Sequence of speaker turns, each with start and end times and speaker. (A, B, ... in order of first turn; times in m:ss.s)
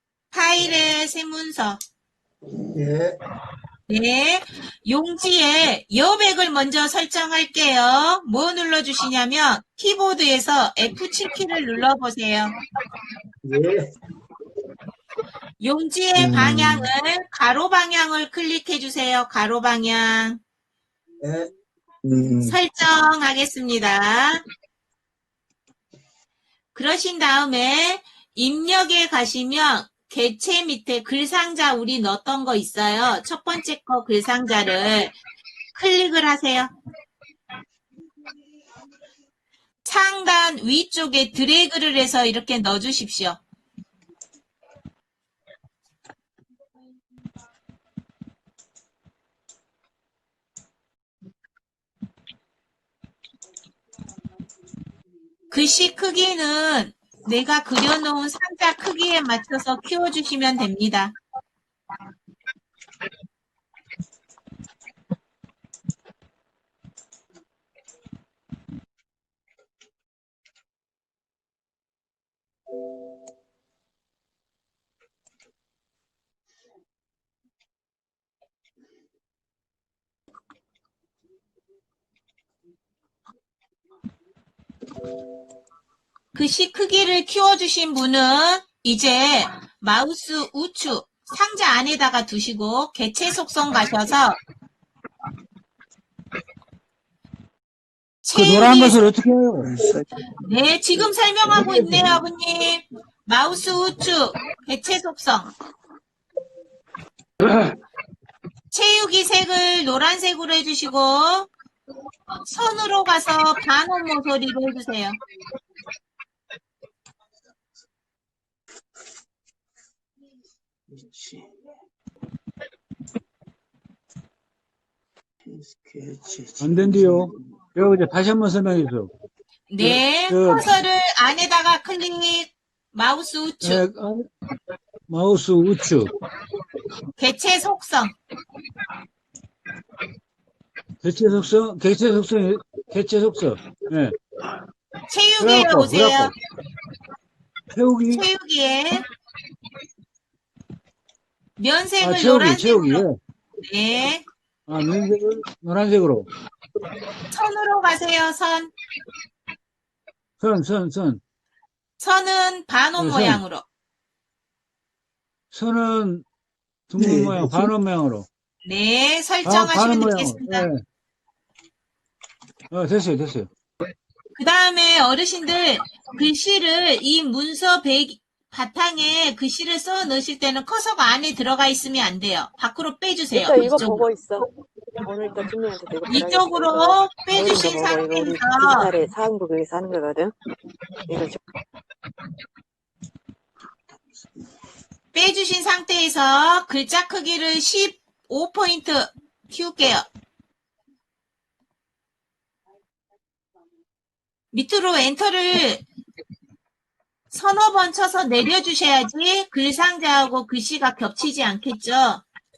0:00.3-0:01.8 A
0:02.6-0:03.2 B
0:03.9-0:12.5 A
0:13.4-0:13.9 B
0:15.6-0:20.4 A
0:16.2-0:16.9 B
0:21.2-0:21.5 B
0:22.0-0:22.6 B
0:22.4-0:24.4 A
0:26.7-0:35.2 A
0:35.7-0:36.7 A
0:39.8-0:43.4 A
0:55.5-1:01.2 A
1:26.3-1:34.4 A
1:38.2-1:39.0 A
1:38.3-1:39.7 C
1:39.6-1:40.0 B
1:40.4-1:45.5 A
1:48.7-1:51.5 A
1:52.4-1:55.2 A
2:00.9-2:01.4 B
2:05.4-2:07.2 B
2:06.6-2:09.1 C
2:09.7-2:13.8 A
2:09.8-2:10.7 C
2:13.6-2:14.3 C
2:15.1-2:16.1 C
2:17.2-2:18.1 A
2:21.0-2:24.2 C
2:25.1-2:26.3 A
2:25.4-2:26.3 C
2:27.7-2:28.2 C
2:28.1-2:29.0 A
2:31.6-2:33.0 A
2:32.0-2:33.2 C
2:33.6-2:34.2 A
2:34.7-2:36.3 C
2:37.3-2:38.7 A
2:40.4-2:41.2 C
2:42.0-2:43.6 A
2:43.0-2:43.4 C
2:45.5-2:46.2 C
2:46.9-2:48.3 C
2:47.0-2:47.7 B
2:48.6-2:50.7 A
2:49.4-2:50.8 C
2:52.7-2:53.5 C
2:54.3-3:04.1 A
3:03.3-3:10.4 D
3:06.1-3:08.9 A
3:11.0-3:11.4 D
3:15.1-3:20.0 A
3:24.5-3:25.8 A
3:27.3-3:32.2 A